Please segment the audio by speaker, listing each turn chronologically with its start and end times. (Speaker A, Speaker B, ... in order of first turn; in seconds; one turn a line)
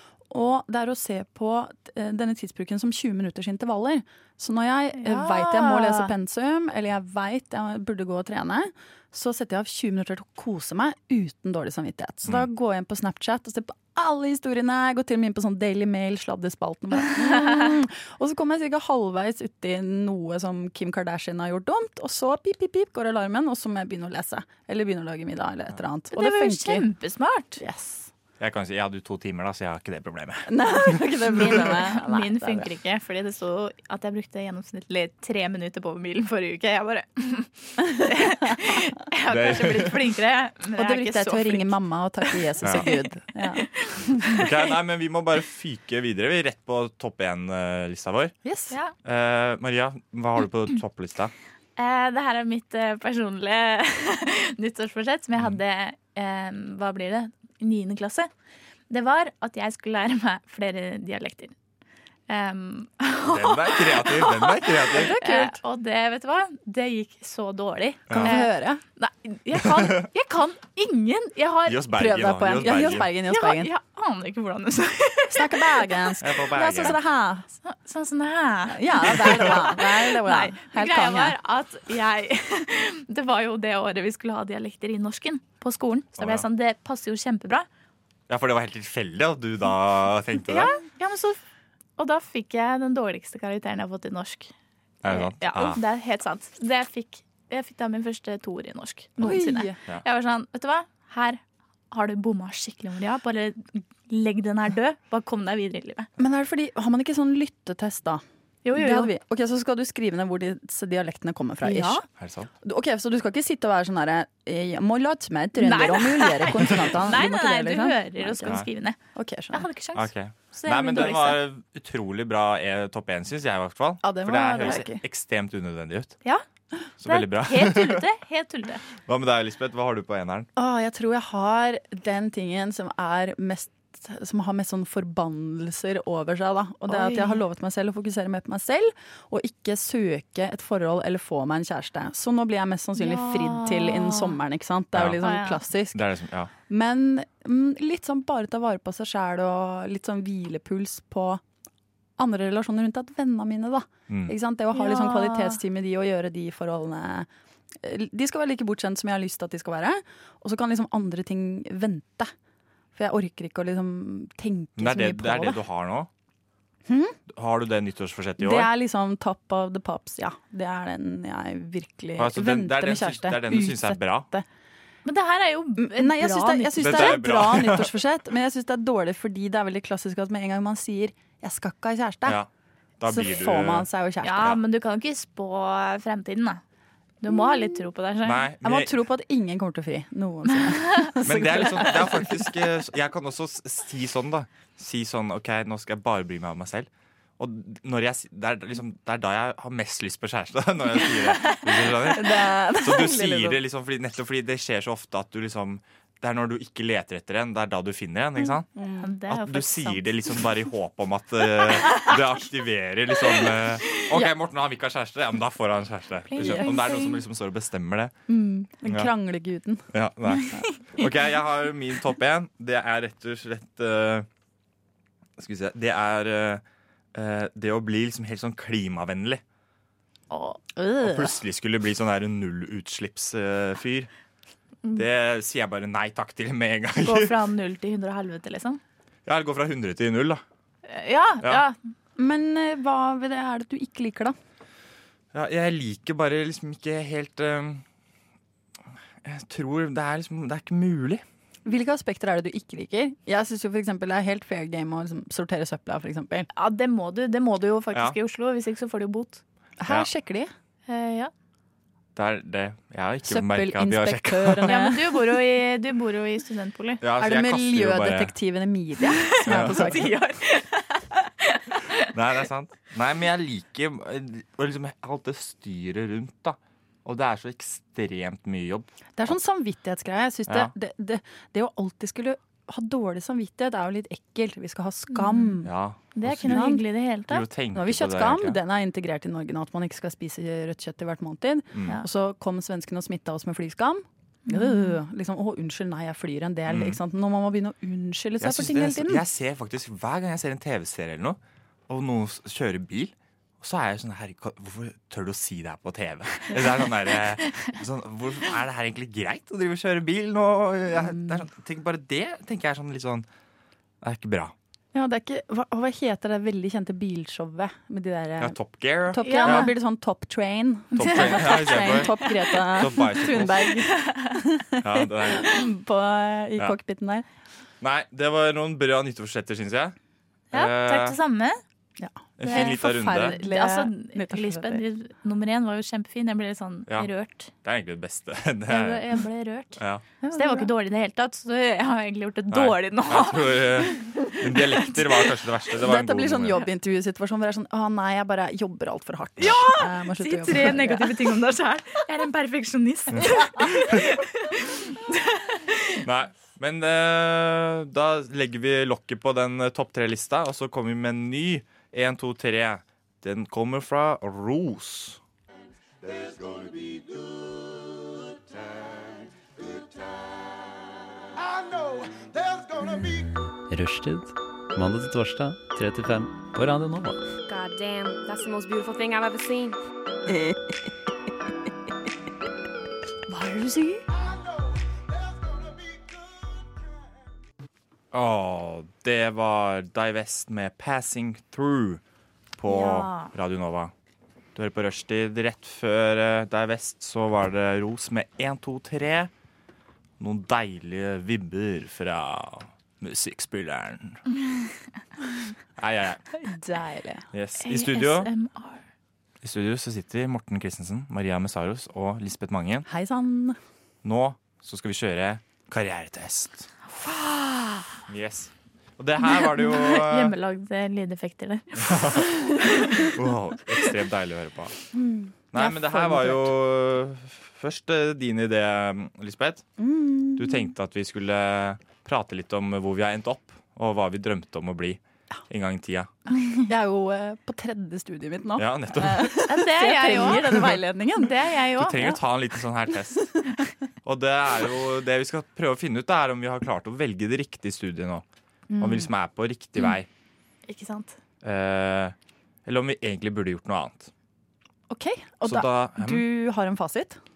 Speaker A: 0.3-26.9
Speaker B: 5.0-6.1
Speaker B: 26.1-27.6
Speaker A: 27.6-28.1
Speaker C: 28.4-30.9
Speaker A: 30.5-32.7
Speaker B: 31.3-43.0
Speaker C: 39.3-40.1
Speaker A: 40.8-44.3
Speaker C: 42.6-42.9
Speaker B: 43.6-44.4
Speaker C: 44.4-48.3
Speaker A: 48.4-48.7
Speaker C: 49.0-51.3
Speaker B: 51.8-58.3
Speaker B: 58.9-61.5
Speaker B: 62.3-71.9
Speaker C: 63.2-65.1
Speaker A: 64.9-65.6
Speaker A: 68.1-68.8
Speaker C: 71.7-73.1
Speaker A: 71.9-73.7
Speaker B: 73.2-75.8
Speaker A: 75.3-77.5
Speaker C: 76.2-77.0
Speaker B: 77.6-87.7
Speaker A: 78.7-81.3
Speaker C: 86.2-86.4
Speaker C: 88.3-90.7
Speaker B: 90.4-91.4
Speaker B: 92.0-94.5
Speaker C: 95.0-95.8
Speaker B: 95.0-101.4
Speaker A: 99.2-99.8
Speaker B: 101.9-106.1
Speaker A: 106.2-112.0
Speaker B: 108.6-109.1
Speaker B: 111.6-112.0
Speaker C: 112.2-112.5
Speaker A: 112.6-118.6
Speaker B: 115.6-119.0
Speaker A: 119.1-119.7
Speaker B: 119.5-121.4
Speaker C: 119.9-126.2
Speaker A: 124.0-125.0
Speaker C: 127.0-128.0
Speaker B: 127.0-128.8
Speaker C: 129.1-130.5
Speaker A: 130.6-146.0
Speaker B: 136.9-137.4
Speaker B: 142.9-144.4
Speaker C: 144.9-145.2
Speaker B: 145.2-145.6
Speaker C: 145.9-146.5
Speaker A: 146.7-151.4
Speaker A: 152.2-157.3
Speaker C: 154.1-154.3
Speaker B: 154.7-155.6
Speaker A: 157.8-162.3
Speaker A: 162.9-165.6
Speaker C: 164.8-166.1
Speaker A: 166.9-167.2
Speaker C: 167.3-168.7
Speaker A: 168.4-174.4
Speaker C: 172.2-174.3
Speaker B: 175.0-177.2
Speaker A: 175.8-182.4
Speaker C: 176.8-177.9
Speaker C: 183.0-183.9
Speaker A: 183.0-184.6
Speaker B: 184.2-186.6
Speaker B: 187.2-188.4
Speaker A: 187.3-187.8
Speaker C: 188.2-189.0
Speaker A: 188.6-192.4
Speaker C: 191.2-208.7
Speaker A: 202.1-203.6
Speaker A: 208.8-209.1
Speaker B: 209.0-210.0
Speaker C: 209.3-218.1
Speaker B: 216.3-217.2
Speaker A: 216.4-216.7
Speaker A: 218.3-219.8
Speaker C: 218.8-219.1
Speaker C: 219.9-224.3
Speaker C: 225.4-226.6
Speaker C: 227.1-229.4
Speaker B: 230.3-230.8
Speaker A: 230.8-231.2
Speaker C: 231.0-234.1
Speaker C: 234.9-237.3
Speaker B: 237.0-238.8
Speaker C: 239.2-240.4
Speaker B: 240.8-241.8
Speaker A: 242.2-244.3
Speaker C: 245.3-247.8
Speaker C: 249.2-251.2
Speaker A: 251.6-256.5
Speaker B: 256.5-259.4
Speaker A: 259.8-260.5
Speaker B: 260.9-261.3
Speaker C: 262.1-264.9
Speaker A: 263.2-265.2
Speaker B: 264.7-267.0
Speaker C: 267.0-268.3
Speaker A: 267.2-270.1
Speaker B: 269.0-272.1
Speaker C: 269.5-269.9
Speaker C: 272.1-279.3
Speaker A: 279.2-285.7
Speaker B: 285.1-285.6
Speaker C: 285.6-286.7
Speaker B: 286.1-287.4
Speaker A: 286.4-286.8
Speaker C: 287.3-288.6
Speaker A: 287.7-299.2
Speaker C: 291.7-292.0
Speaker B: 294.4-294.9
Speaker C: 296.7-297.0
Speaker C: 298.4-313.2
Speaker A: 310.9-311.4
Speaker C: 314.0-314.5
Speaker A: 314.9-327.2
Speaker C: 318.4-319.7
Speaker B: 319.2-319.7
Speaker C: 320.9-323.7
Speaker B: 321.0-322.6
Speaker B: 323.6-324.4
Speaker C: 324.8-325.5
Speaker C: 327.8-329.9
Speaker C: 330.5-331.2
Speaker B: 330.5-331.6
Speaker A: 332.0-334.8
Speaker C: 332.4-333.3
Speaker B: 332.4-337.5
Speaker C: 337.6-339.2
Speaker B: 338.7-339.8
Speaker C: 339.8-340.0
Speaker A: 340.2-340.7
Speaker B: 340.3-343.6
Speaker C: 342.5-346.6
Speaker A: 345.8-351.2
Speaker B: 349.4-356.0
Speaker C: 353.1-354.0
Speaker C: 356.0-365.2
Speaker D: 372.8-377.3
Speaker E: 377.4-379.8
Speaker A: 383.3-384.0
Speaker C: 388.1-392.0
Speaker C: 392.6-393.9
Speaker B: 392.7-393.3
Speaker C: 394.5-399.3
Speaker C: 400.2-404.2
Speaker C: 405.8-406.3
Speaker A: 406.4-407.2
Speaker C: 407.3-408.3
Speaker B: 407.6-408.8
Speaker C: 409.4-412.9
Speaker A: 412.9-413.6
Speaker C: 414.0-416.7
Speaker B: 417.0-417.9
Speaker C: 418.1-420.3
Speaker B: 419.3-423.1
Speaker C: 421.8-422.3
Speaker C: 423.0-424.8
Speaker A: 424.9-426.5
Speaker C: 425.5-429.6
Speaker A: 429.8-430.7
Speaker C: 430.4-436.1
Speaker A: 436.6-442.2
Speaker C: 438.6-439.4
Speaker B: 439.5-440.4
Speaker C: 440.2-440.7
Speaker B: 441.2-442.1
Speaker C: 441.8-443.3
Speaker C: 444.0-448.2
Speaker A: 448.7-449.1
Speaker C: 448.8-450.1
Speaker B: 450.7-451.2
Speaker C: 451.4-452.1
Speaker C: 452.6-454.1
Speaker A: 454.9-457.2
Speaker C: 455.4-456.2